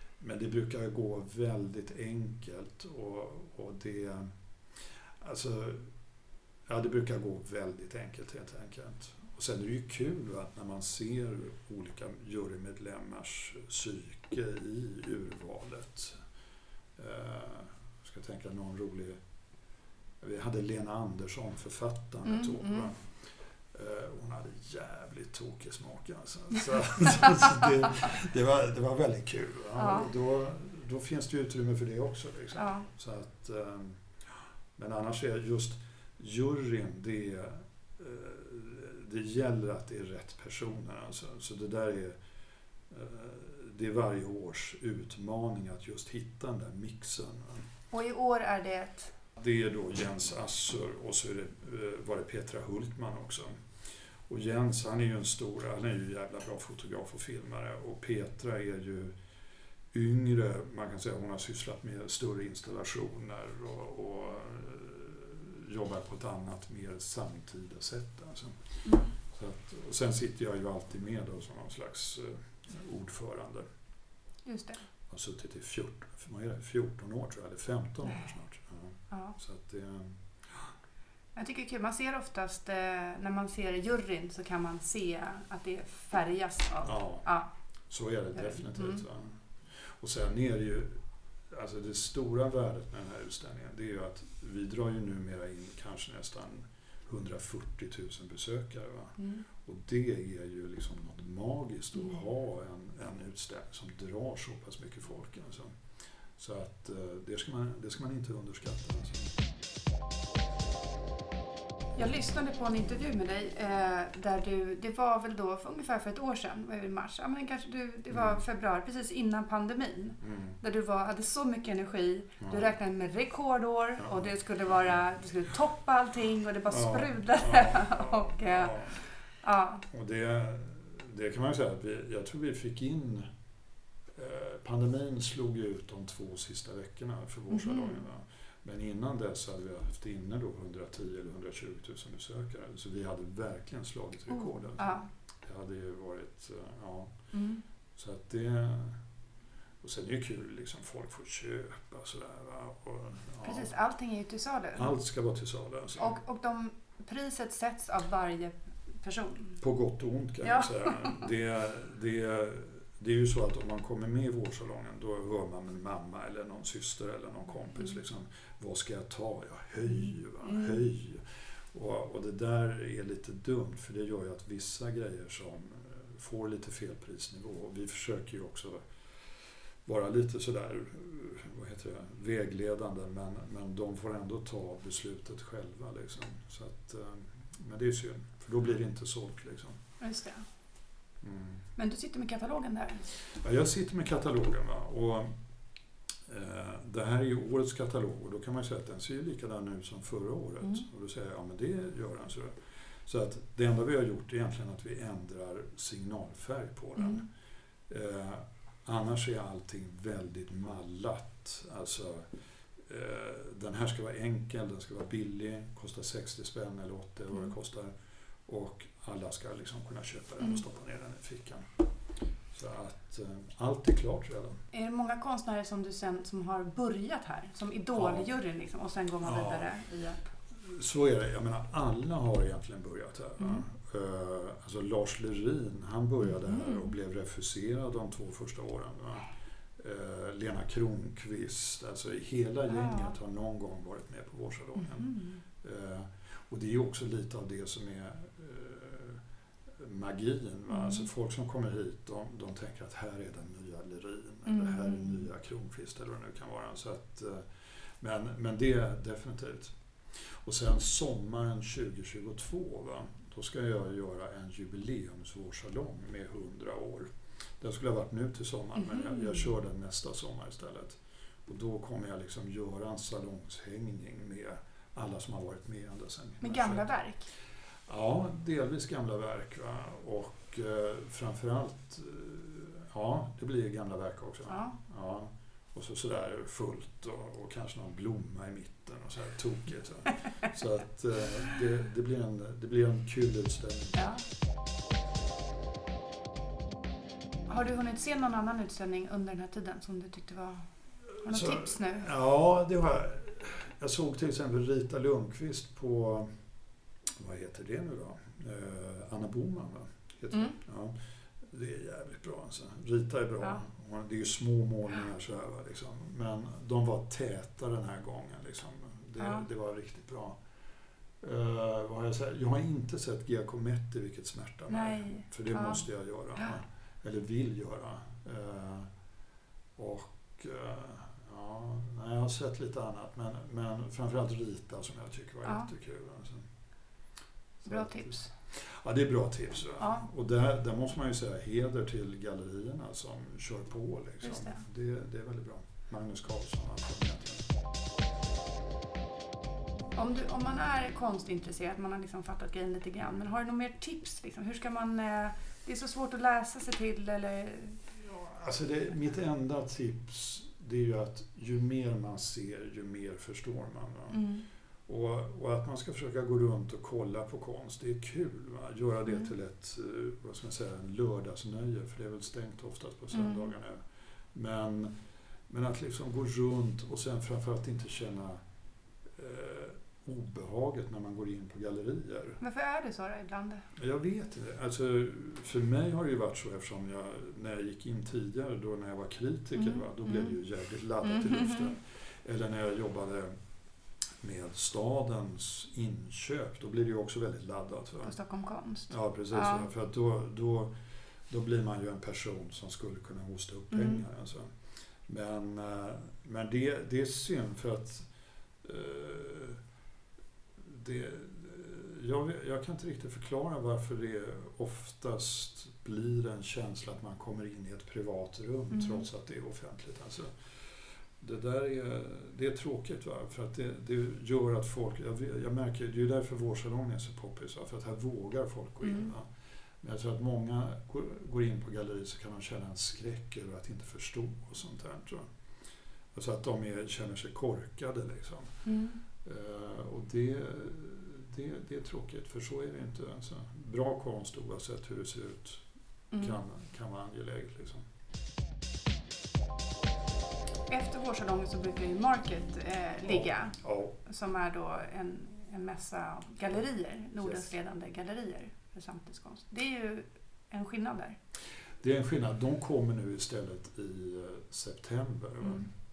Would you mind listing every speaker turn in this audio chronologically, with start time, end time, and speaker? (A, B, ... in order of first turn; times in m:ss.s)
0:00.2-0:05.9 A
0:06.7-0:16.2 A
0:17.0-0:19.2 A
0:20.2-0:23.2 A
0:22.2-0:22.9 B
0:23.7-0:34.1 A
0:29.8-0:30.1 B
0:32.5-0:32.9 B
0:34.7-0:42.2 A
0:42.9-0:47.6 A
0:47.9-0:49.1 B
0:49.4-0:53.5 A
0:54.3-0:59.1 A
0:59.9-1:13.6 A
1:14.4-1:14.8 B
1:15.1-1:20.2 A
1:19.1-1:19.4 B
1:21.3-1:27.5 B
1:26.8-1:31.0 A
1:28.3-1:29.0 B
1:31.5-1:45.8 A
1:39.2-1:39.4 B
1:46.4-1:49.3 A
1:51.9-2:09.8 B
1:58.1-1:58.4 A
2:00.2-2:00.6 A
2:02.4-2:02.7 A
2:04.0-2:04.3 A
2:06.7-2:09.0 A
2:09.9-2:13.3 A
2:14.2-2:27.1 A
2:17.5-2:18.0 B
2:24.3-2:25.1 B
2:27.3-2:27.6 B
2:28.0-2:29.0 A
2:29.8-2:33.7 A
2:33.4-2:35.0 B
2:34.7-2:36.1 A
2:36.0-2:39.6 B
2:39.6-2:58.8 A
2:40.4-2:41.2 B
2:50.4-2:50.8 B
2:59.8-3:09.8 A
3:10.0-3:10.4 B
3:11.2-3:11.6 A
3:11.8-3:13.1 B
3:13.3-3:15.3 A
3:16.3-3:27.2 A
3:27.0-3:27.2 B
3:27.9-3:32.3 A
3:32.8-3:37.9 A
3:38.4-3:41.6 A
3:42.5-3:44.6 A
3:44.7-3:50.3 B
3:47.9-3:48.3 A
3:49.2-3:49.8 A
3:50.6-4:09.2 A
3:53.4-3:53.6 B
3:56.2-3:57.0 B
4:02.7-4:03.2 B
4:04.7-4:05.4 B
4:09.8-4:27.1 A
4:10.7-4:11.1 B
4:14.4-4:15.3 B
4:27.6-4:36.8 A
4:28.8-4:29.5 B
4:36.4-4:37.3 B
4:37.9-4:54.1 A
4:44.5-4:44.8 B
4:53.9-4:54.2 B
4:57.5-5:02.1 B
5:01.2-5:06.3 A
5:07.2-5:20.4 A
5:10.3-5:10.6 B
5:19.2-5:19.4 B
5:21.2-5:28.9 A
5:24.7-5:26.6 B
5:29.8-5:36.4 A
5:35.4-5:35.7 B
5:37.6-5:47.4 A
5:37.6-5:38.3 B
5:39.8-5:40.0 B
5:44.2-5:44.6 B
5:49.9-5:57.8 B
5:58.0-6:04.3 A
6:04.1-6:04.4 B
6:04.9-6:13.8 A
6:13.1-6:13.5 B
6:14.3-6:14.9 A
6:15.5-6:18.4 A
6:19.2-6:22.4 A
6:22.4-6:23.6 B
6:23.8-6:33.3 A
6:29.6-6:30.3 B
6:31.0-6:31.7 B
6:34.2-6:38.2 A
6:38.0-6:39.7 B
6:38.9-6:40.7 A
6:41.3-6:44.5 A
6:43.7-6:44.0 B
6:45.1-6:48.1 A
6:48.6-6:49.6 A
6:50.6-7:00.6 A
6:58.7-6:59.1 B
7:01.2-7:15.3 A
7:08.8-7:09.1 B
7:16.1-7:18.6 A
7:18.6-7:19.0 B
7:19.2-7:25.6 A
7:26.1-7:26.4 B
7:26.2-7:27.8 A
7:30.7-7:41.2 B
7:33.0-7:33.9 A
7:37.2-7:37.4 A
7:41.8-7:45.7 A